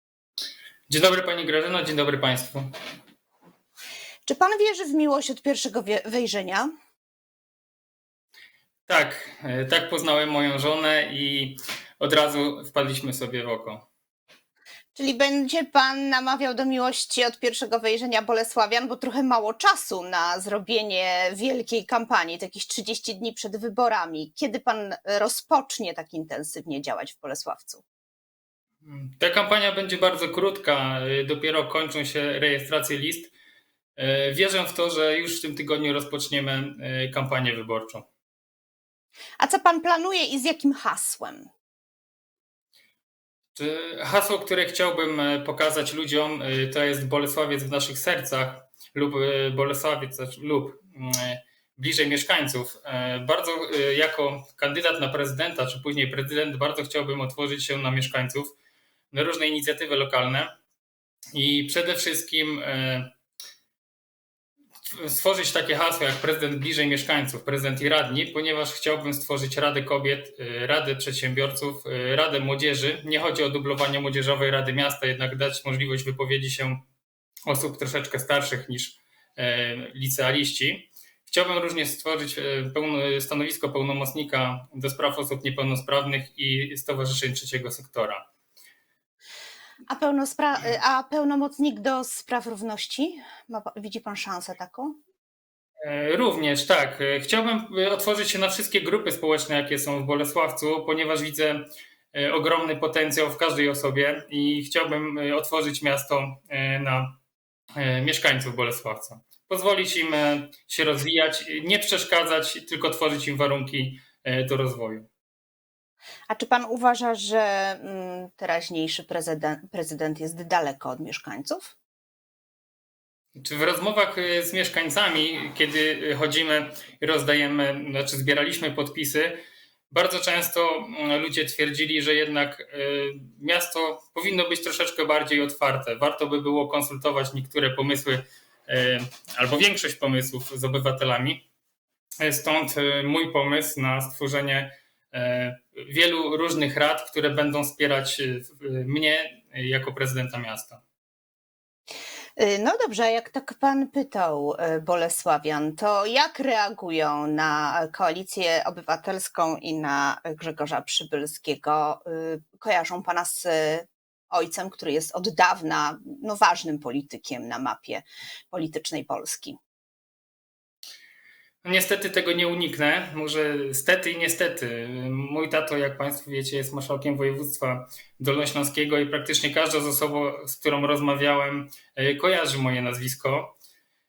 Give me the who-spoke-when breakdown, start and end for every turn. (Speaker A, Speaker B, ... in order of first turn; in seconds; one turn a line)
Speaker A: 0.9-2.7
Speaker B: 4.3-6.7
Speaker A: 8.9-13.8
Speaker B: 14.9-27.8
Speaker A: 28.8-33.3
Speaker A: 34.0-38.1
Speaker B: 39.4-41.5
Speaker A: 43.5-58.5
Speaker A: 59.1-60.5
Speaker A: 61.3-63.1
Speaker A: 64.9-76.8
Speaker A: 77.5-88.2
Speaker B: 89.9-95.0
Speaker A: 95.8-107.1
Speaker A: 107.8-115.1
Speaker B: 116.3-121.7
Speaker A: 123.4-141.4
Speaker A: 142.2-150.8
Speaker B: 152.4-169.6
Speaker A: 171.6-183.5